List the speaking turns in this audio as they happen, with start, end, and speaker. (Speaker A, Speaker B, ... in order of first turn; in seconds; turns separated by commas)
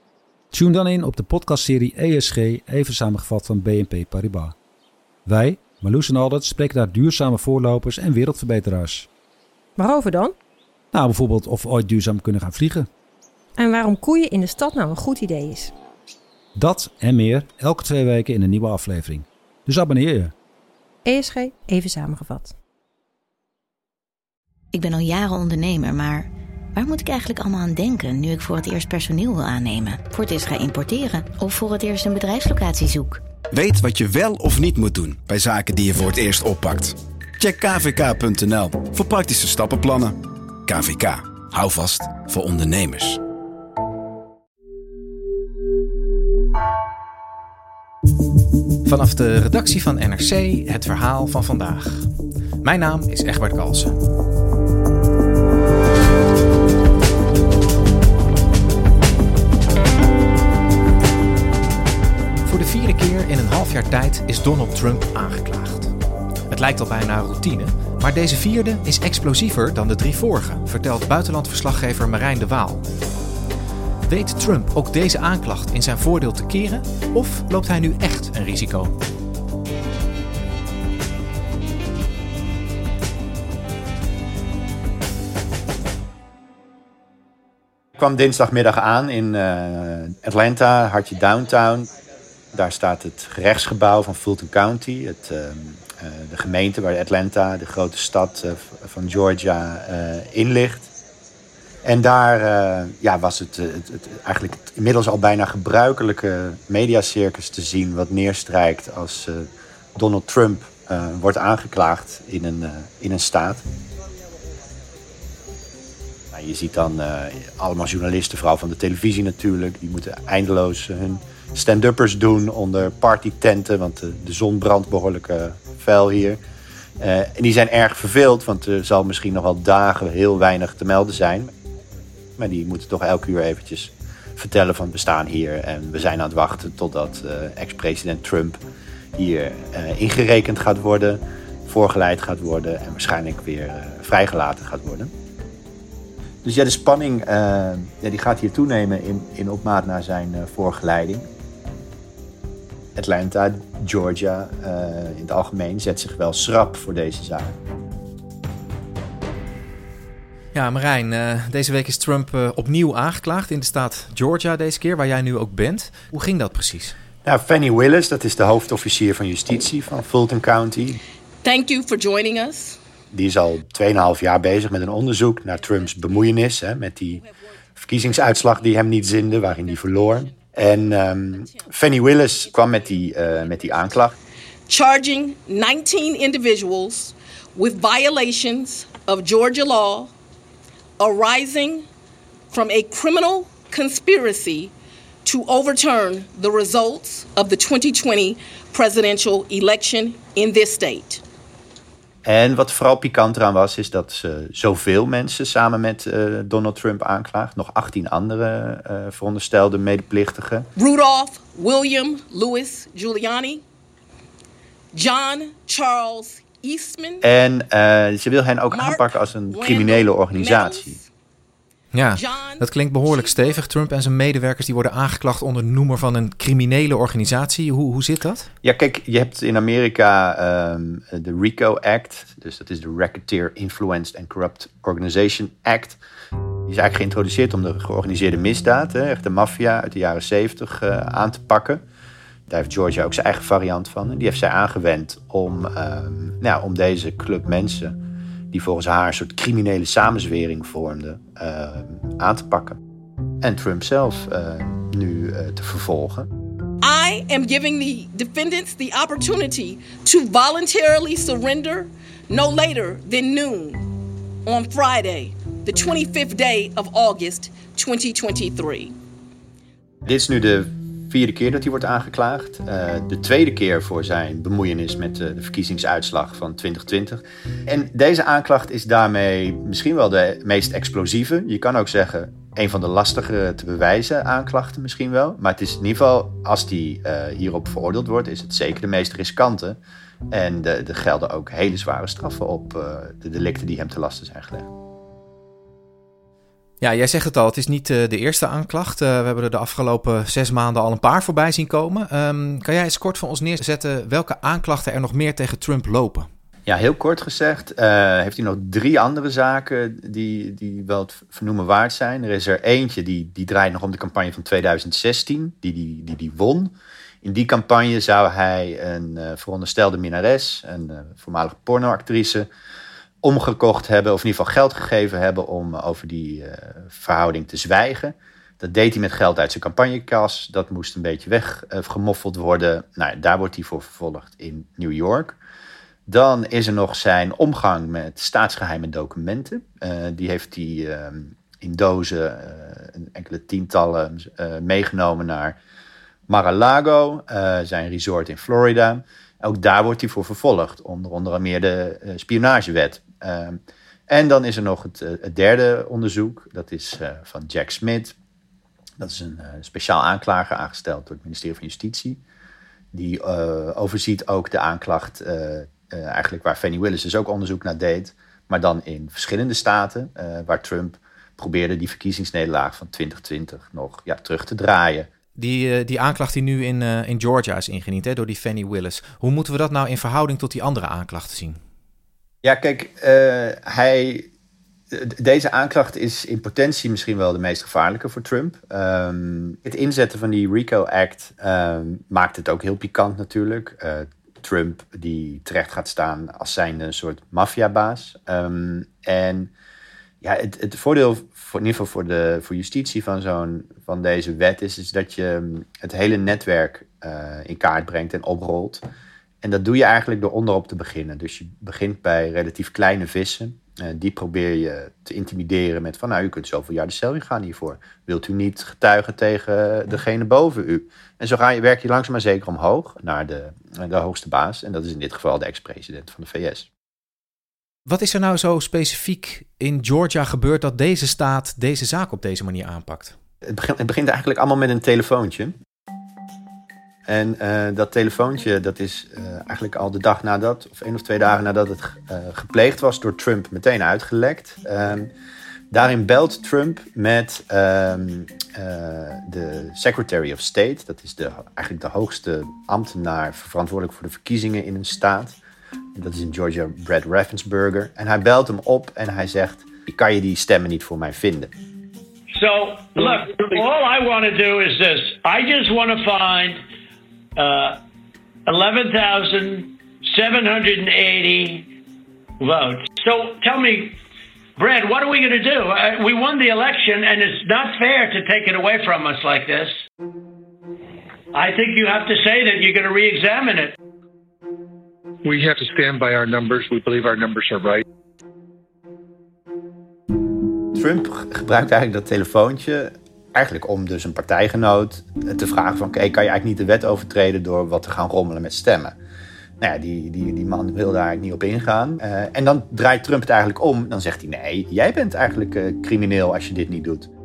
Speaker A: 0.5-4.5, Speaker A: 5.3-9.1, Speaker B: 9.8-10.3, Speaker A: 10.9-12.9, Speaker B: 13.6-15.7, Speaker A: 16.6-20.3, Speaker B: 21.1-22.6, Speaker C: 24.7-33.2, Speaker D: 33.5-43.2, Speaker E: 48.9-52.1, Speaker E: 52.6-54.0, Speaker E: 62.4-66.0, Speaker E: 66.5-72.9, Speaker E: 74.1-78.9, Speaker F: 88.0-91.9, Speaker F: 92.5-100.9, Speaker F: 101.8-113.6, Speaker F: 116.3-126.4, Speaker F: 127.0-131.5, Speaker F: 132.4-138.6, Speaker F: 139.2-145.1, Speaker F: 146.4-151.3, Speaker F: 153.0-157.6, Speaker E: 160.6-167.0, Speaker F: 167.2-171.0, Speaker G: 171.4-172.8, Speaker F: 173.1-177.2, Speaker G: 175.9-176.3, Speaker F: 177.8-184.2, Speaker G: 178.1-180.3, Speaker G: 182.5-184.0, Speaker G: 184.7-190.1, Speaker G: 191.0-191.9, Speaker G: 192.5-194.7, Speaker G: 195.2-201.2, Speaker F: 202.2-210.7, Speaker G: 210.8-213.6, Speaker G: 214.9-217.2, Speaker F: 217.2-221.0, Speaker G: 218.7-221.0, Speaker E: 221.9-228.5, Speaker G: 222.2-223.6, Speaker F: 228.6-236.0, Speaker F: 236.7-241.8, Speaker F: 242.5-248.0, Speaker F: 248.5-252.8, Speaker F: 253.4-256.3, Speaker G: 256.8-263.9, Speaker G: 264.4-268.9, Speaker F: 270.1-289.8, Speaker F: 290.3-294.7, Speaker E: 296.8-306.3, Speaker F: 306.7-322.5, Speaker F: 323.2-335.4, Speaker F: 336.1-345.6, Speaker F: 346.3-358.2, Speaker F: 359.0-362.2, Speaker F: 362.9-375.1, Speaker E: 375.4-381.6, Speaker F: 382.4-384.3, Speaker F: 384.9-399.5, Speaker F: 400.2-408.8, Speaker F: 409.4-426.7, Speaker E: 427.9-433.1, Speaker F: 433.4-435.5, Speaker F: 437.1-445.1, Speaker F: 445.7-455.4, Speaker F: 456.0-461.5, Speaker H: 462.3-466.6, Speaker H: 467.4-467.8, Speaker H: 468.5-471.7, Speaker H: 472.4-474.0, Speaker H: 474.6-479.8, Speaker H: 481.3-483.8, Speaker I: 485.3-487.8, Speaker F: 490.7-499.0, Speaker F: 499.6-507.1